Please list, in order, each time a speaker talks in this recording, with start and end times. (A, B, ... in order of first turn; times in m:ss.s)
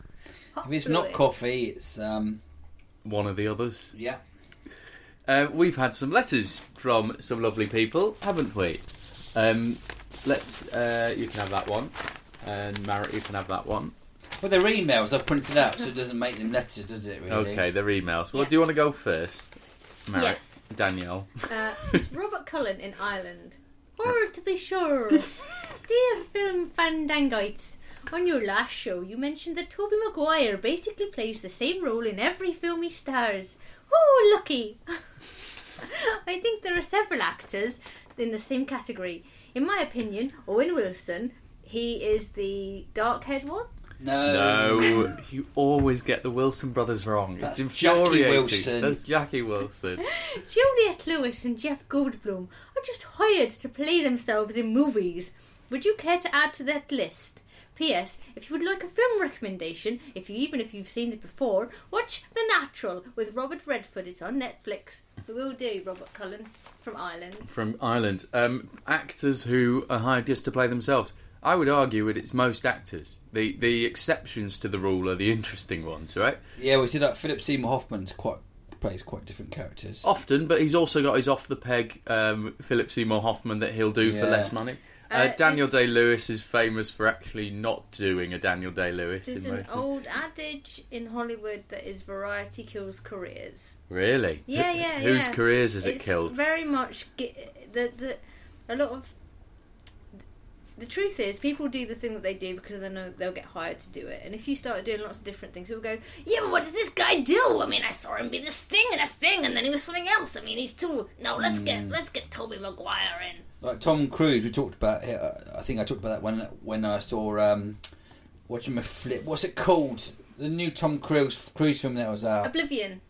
0:00.5-0:01.2 A
0:00.6-0:02.4 B
0:03.0-0:03.9 C
0:03.9-0:04.2 B
0:05.2-0:13.9 C
0:14.4-0:17.6 B
0:17.3-0:22.0 C
0:20.1-0:20.6 A
0:21.5-0:25.3 A
0:25.9-0:35.0 A
0:35.8-0:43.7 A
0:44.0-0:45.2 B
0:44.2-0:50.0 C
0:47.4-0:49.0 B
0:50.0-1:07.5 A
1:07.4-1:16.4 C
1:16.6-1:20.0 B
1:20.0-1:29.8 C
1:24.0-1:24.5 B
1:25.1-1:25.7 A
1:29.2-1:33.7 A
1:33.9-1:36.4 C
1:34.5-1:39.1 A
1:40.8-1:53.4 A
1:51.4-1:51.9 B
1:53.6-1:57.8 B
1:58.5-2:02.5 B
2:02.4-2:03.0 A